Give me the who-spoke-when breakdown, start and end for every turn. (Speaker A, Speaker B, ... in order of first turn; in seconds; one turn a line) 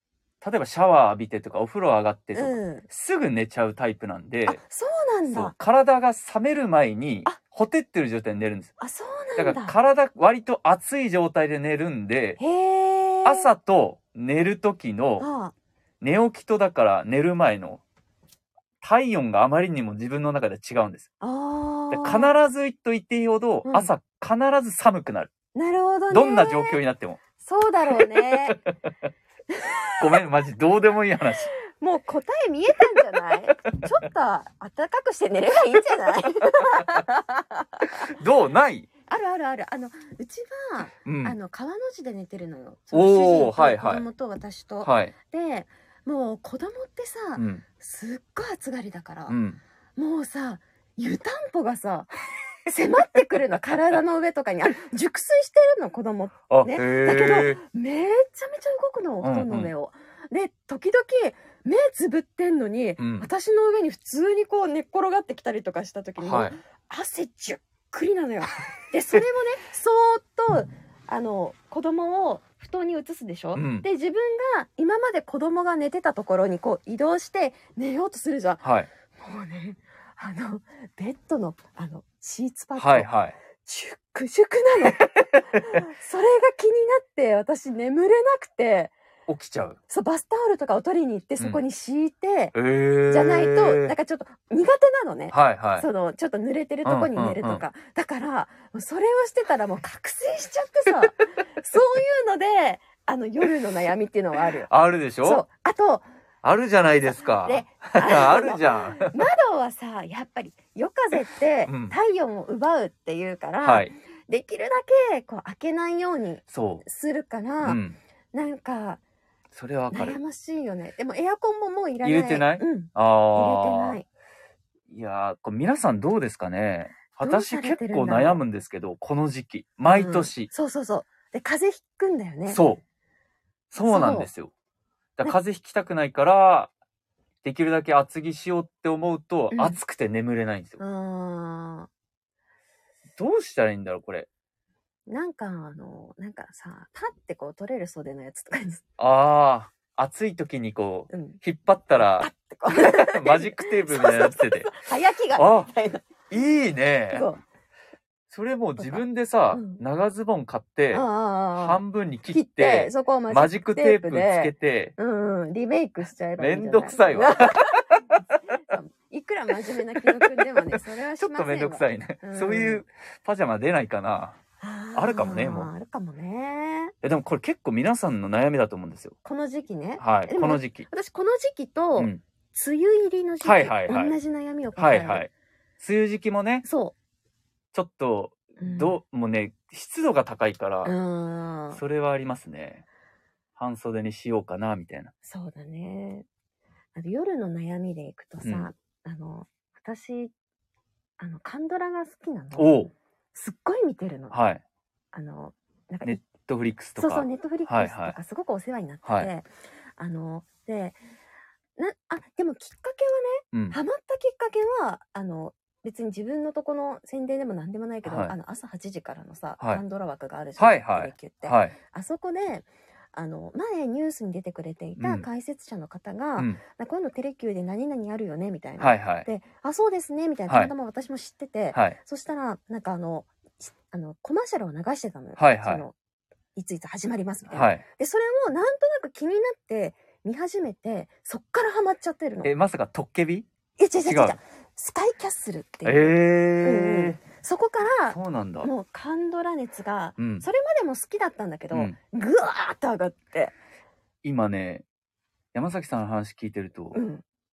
Speaker A: 0.4-4.6
Speaker B: 2.4-2.9
Speaker B: 4.5-5.5
Speaker A: 5.3-8.7
Speaker B: 8.8-9.8
Speaker A: 9.4-12.4
Speaker B: 12.4-13.5
Speaker A: 13.2-15.3
Speaker B: 15.2-15.5
Speaker A: 16.0-17.8
Speaker A: 18.8-21.1
Speaker B: 21.2-22.3
Speaker A: 21.9-25.3
Speaker B: 23.6-23.9
Speaker B: 25.5-26.8
Speaker A: 26.1-27.2
Speaker B: 27.4-28.6
Speaker B: 29.5-29.8
Speaker A: 30.0-31.5
Speaker B: 31.7-37.9
Speaker A: 38.1-38.9
Speaker B: 39.1-49.4
Speaker A: 41.0-41.4
Speaker A: 42.9-44.0
Speaker A: 44.8-45.1
Speaker A: 47.4-47.6
Speaker A: 49.3-49.6
Speaker B: 50.0-52.1
Speaker B: 52.7-78.6
Speaker A: 56.5-57.6
Speaker A: 59.2-59.7
Speaker A: 63.0-63.3
Speaker A: 66.2-66.6
Speaker A: 73.5-73.9
Speaker A: 78.6-78.9
Speaker B: 79.2-83.1
Speaker A: 82.8-83.4
Speaker B: 83.6-89.0
Speaker A: 85.0-85.5
Speaker A: 89.3-89.8
Speaker B: 89.9-92.6
Speaker A: 92.5-94.0
Speaker B: 93.1-104.7
Speaker A: 95.3-95.9
Speaker A: 96.8-97.6
Speaker A: 104.7-105.4
Speaker B: 105.2-106.1
Speaker A: 106.4-109.1
Speaker B: 107.4-117.8
Speaker A: 111.7-112.0
Speaker A: 113.6-113.9
Speaker A: 116.5-116.8
Speaker A: 117.6-118.0
Speaker B: 118.3-119.0
Speaker A: 119.5-120.2
Speaker B: 119.9-124.1
Speaker A: 122.0-124.0
Speaker A: 124.9-130.5
Speaker B: 127.2-128.4
Speaker B: 129.9-132.6
Speaker A: 132.5-132.8
Speaker A: 133.7-134.5
Speaker B: 133.8-134.3
Speaker A: 135.2-136.7
Speaker A: 137.4-140.8
Speaker B: 139.5-139.8
Speaker B: 140.8-141.9
Speaker A: 143.2-144.3
Speaker B: 145.1-148.8
Speaker A: 149.0-154.7
Speaker B: 151.1-151.4
Speaker B: 152.2-156.1
Speaker A: 155.4-155.7
Speaker A: 156.3-157.3
Speaker B: 157.1-157.4
Speaker A: 158.3-165.0
Speaker B: 158.8-159.8
Speaker B: 160.9-167.8
Speaker A: 166.4-168.0
Speaker B: 168.7-172.8
Speaker A: 171.2-174.4
Speaker B: 174.6-176.9
Speaker A: 174.9-175.7
Speaker A: 177.0-179.2
Speaker B: 179.2-185.3
Speaker A: 180.0-180.9
Speaker A: 182.0-182.2
Speaker A: 183.4-184.2
Speaker A: 184.8-186.7
Speaker B: 186.6-186.9
Speaker A: 187.7-190.9
Speaker B: 188.6-189.0
Speaker B: 190.8-191.8
Speaker A: 191.7-192.8
Speaker A: 193.6-195.1
Speaker B: 195.2-196.3
Speaker B: 196.9-200.3
Speaker A: 198.4-198.7
Speaker B: 201.2-204.4
Speaker A: 202.6-202.9
Speaker A: 204.3-204.6
Speaker B: 205.1-206.2
Speaker A: 206.0-208.2
Speaker B: 207.0-211.0
Speaker A: 209.1-209.3
Speaker B: 211.8-235.9
Speaker A: 213.5-213.8
Speaker A: 218.1-218.3
Speaker A: 220.6-221.8
Speaker A: 225.0-225.3
Speaker A: 228.8-229.3
Speaker A: 235.4-235.8
Speaker B: 236.6-242.5
Speaker A: 237.5-237.8
Speaker A: 242.4-243.5
Speaker B: 243.8-253.5
Speaker A: 244.0-244.4
Speaker A: 245.8-247.2
Speaker A: 248.1-248.7
Speaker A: 250.2-250.5
Speaker A: 251.7-252.0
Speaker A: 254.2-254.8
Speaker A: 255.5-257.0
Speaker B: 256.9-257.2